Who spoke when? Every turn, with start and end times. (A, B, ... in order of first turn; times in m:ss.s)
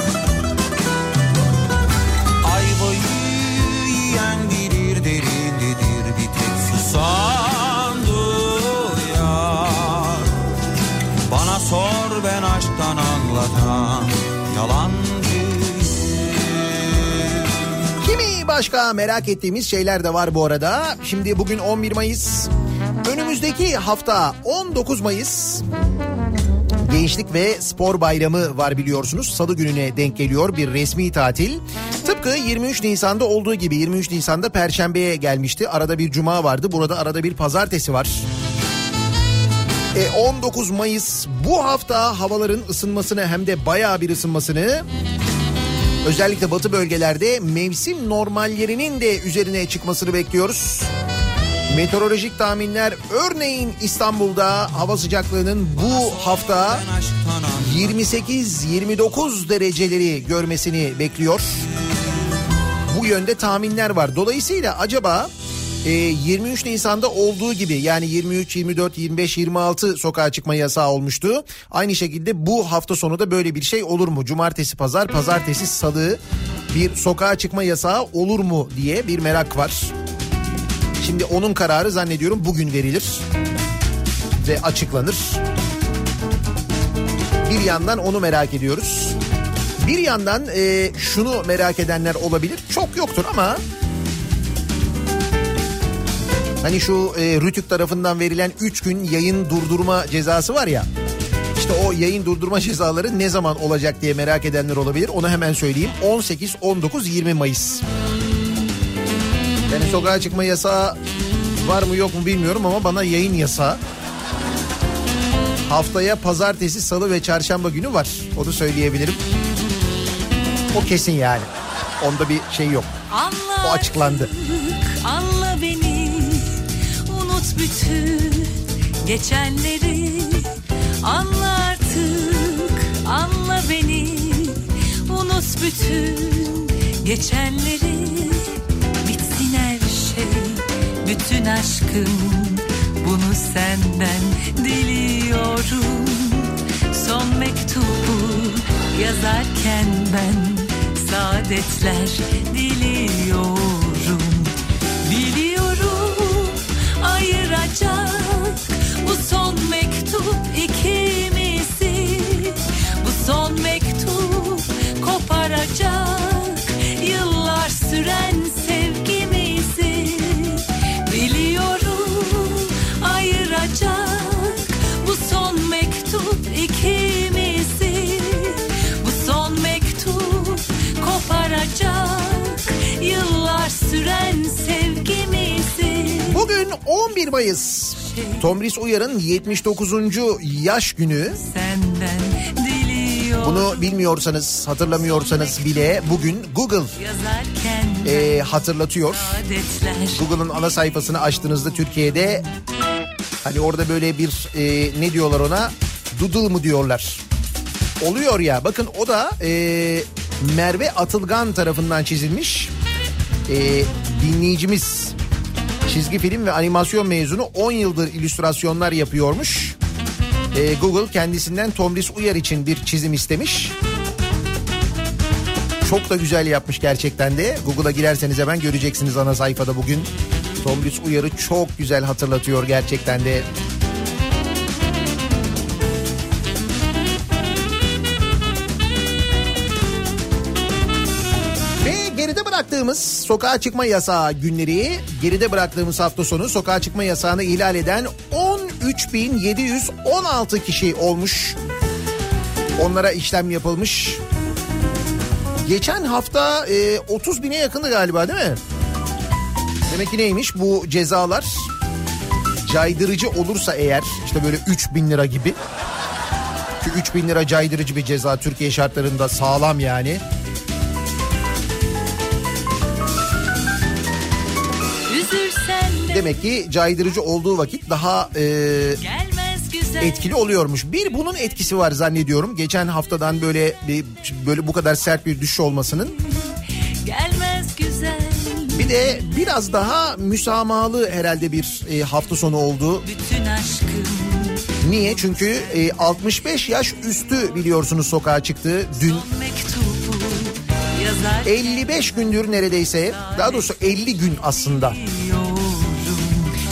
0:02.4-0:10.3 A
0:11.3-0:17.1 A
0:18.0-0:22.5 B
0:23.0-0:25.6 B
0:26.8-0:38.3 B
0:39.9-0:44.8 B
0:46.0-0:50.9 B
0:51.7-0:56.8 B
0:55.7-0:58.1 A
0:57.6-1:01.6 B
1:02.9-1:05.3 B
1:05.8-1:19.9 B
1:21.0-1:23.2 B
1:24.4-1:25.4 B
1:27.4-1:29.2 B
1:29.8-1:33.6 B
1:36.6-1:40.9 B
1:41.6-1:47.8 B
1:49.7-1:51.0 B
1:51.6-1:53.8 B
1:55.6-1:59.2 B
2:00.7-2:02.9 B
2:03.1-2:06.5 C
2:03.6-2:04.3 B
2:07.1-2:10.5 C
2:11.0-2:18.5 C
2:19.0-2:34.5 C
2:35.0-3:06.4 C
3:06.2-3:11.4 B
3:08.1-3:08.5 C
3:11.3-3:13.9 C
3:13.4-3:16.9 B
3:15.0-3:16.0 C
3:17.0-3:18.5 C
3:18.0-3:19.4 B
3:19.0-3:20.5 C
3:20.1-3:22.4 B
3:23.4-3:27.2 B
3:28.0-3:32.7 B
3:33.5-3:35.1 B
3:35.9-3:39.8 B
3:40.5-3:43.7 B
3:45.8-3:53.5 B
4:01.8-4:11.6 B
4:12.8-4:14.2 B
4:15.6-4:18.6 B
4:19.9-4:21.7 B
4:22.6-4:25.6 B
4:26.8-4:30.2 B
4:35.1-4:36.4 C
4:36.1-4:39.0 B
4:39.0-4:40.4 C
4:40.0-4:46.2 B
4:47.0-4:49.0 C
4:48.7-4:53.1 B
4:53.0-4:54.5 C
4:54.8-4:59.2 B
4:58.9-5:06.5 C
5:01.4-5:05.0 B